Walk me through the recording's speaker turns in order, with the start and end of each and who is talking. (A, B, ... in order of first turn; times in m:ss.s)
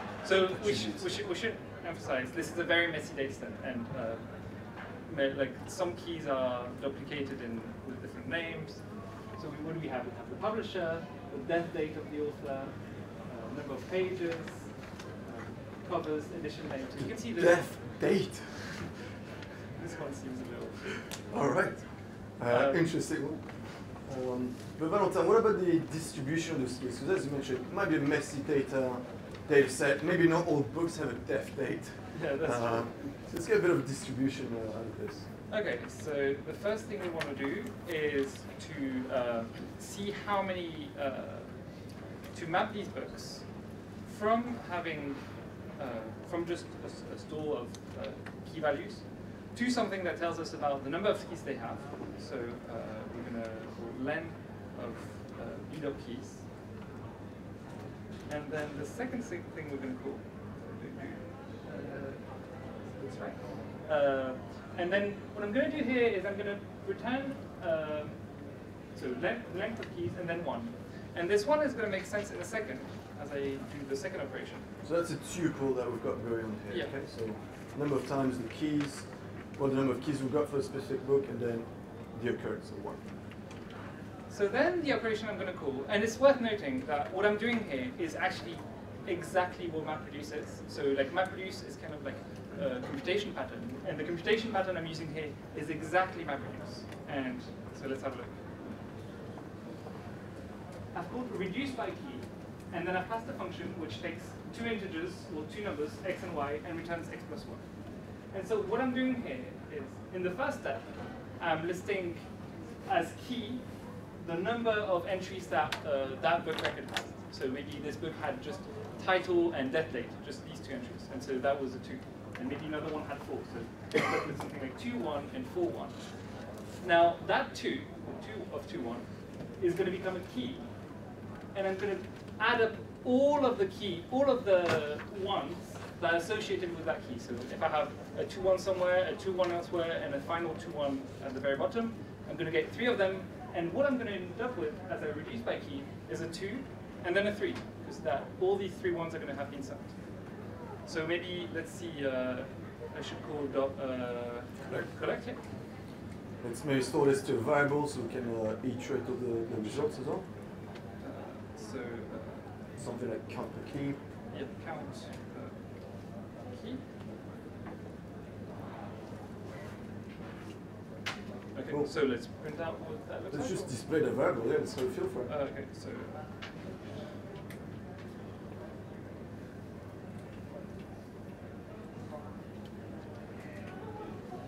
0:00.2-0:18.0 A
0:00.5-0:01.1 B
0:17.0-0:19.0 B
0:19.7-0:21.0 A
0:21.0-0:35.3 B
0:22.5-0:22.9 A
0:32.1-0:33.1 A
0:35.5-0:41.7 A
0:42.3-0:56.4 A
0:58.3-1:08.3 A
1:08.9-1:14.6 A
1:14.8-1:23.1 B
1:24.3-1:38.4 A
1:40.9-1:47.6 A
1:48.3-1:52.3 A
1:52.8-2:06.2 A
2:06.8-2:10.8 A
2:11.5-2:35.4 A
2:34.6-2:34.9 B
2:36.4-2:40.2 B
2:41.0-2:42.5 A
2:42.8-2:44.0 B
2:44.3-2:46.8 A
2:51.5-2:53.7 A
2:53.3-2:55.3 B
2:55.3-2:56.4 A